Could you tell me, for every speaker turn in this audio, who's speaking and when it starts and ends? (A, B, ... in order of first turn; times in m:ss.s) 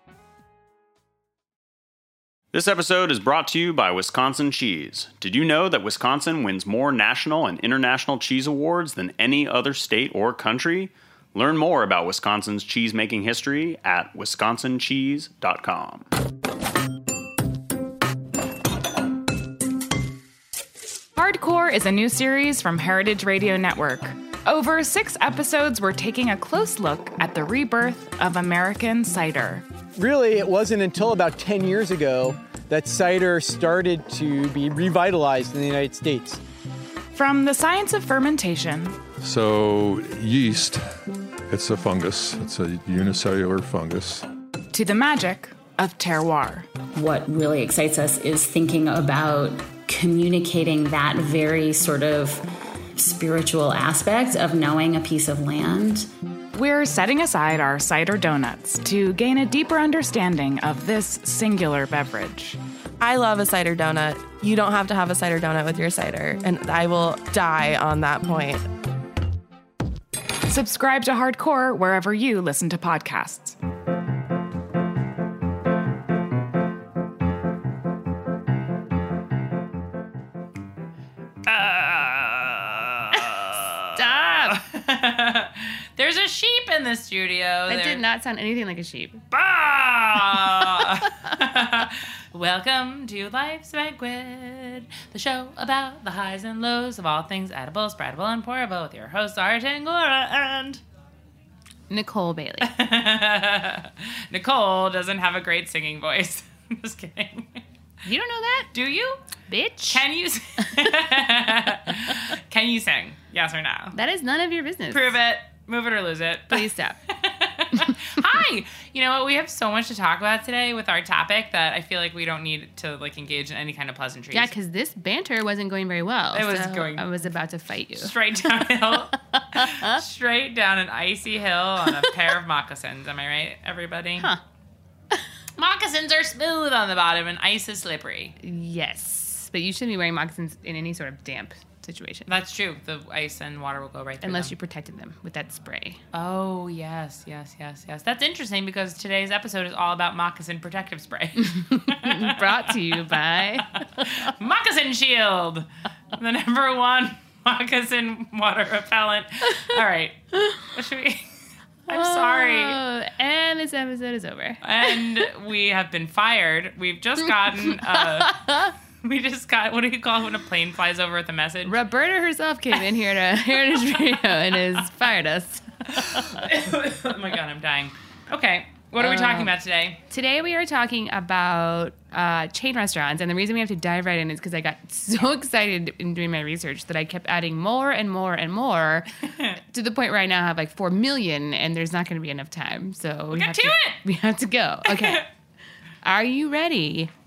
0:02.5-0:16.1 A
0:21.1-0:29.6 B
0:30.0-0:36.4 C
0:37.1-0:39.0 B
0:39.2-0:40.9 D
0:41.5-0:44.2 D
0:44.7-0:46.7 B
0:46.9-0:56.1 E
0:56.5-1:02.6 B
1:03.0-1:08.7 F
1:10.5-1:13.6 B
1:21.5-1:28.0 G
1:23.9-1:24.6 H
1:27.7-1:31.0 H
1:29.5-1:40.8 G
1:41.9-1:42.7 H
1:42.6-1:47.6 G
1:48.0-1:48.7 H
1:48.7-1:49.2 G
1:49.5-1:50.0 H
1:49.9-1:54.0 G
1:53.9-1:55.1 H
1:54.9-2:04.5 G
1:56.5-1:57.0 H
2:04.3-2:08.1 H
2:06.3-2:07.1 G
2:07.9-2:14.3 G
2:09.5-2:10.0 H
2:15.6-2:18.4 G
2:18.4-2:22.3 H
2:22.3-2:24.5 G
2:24.2-2:26.0 H
2:26.1-2:41.3 G
2:31.6-2:34.0 H
2:41.9-2:42.8 G
2:41.9-2:45.0 H
2:44.6-2:51.8 G
2:51.6-2:56.4 H
2:55.9-3:00.0 G
2:59.0-2:59.5 H
3:00.1-3:15.3 H
3:13.3-3:14.0 G
3:14.8-3:15.2 G
3:16.0-3:17.1 H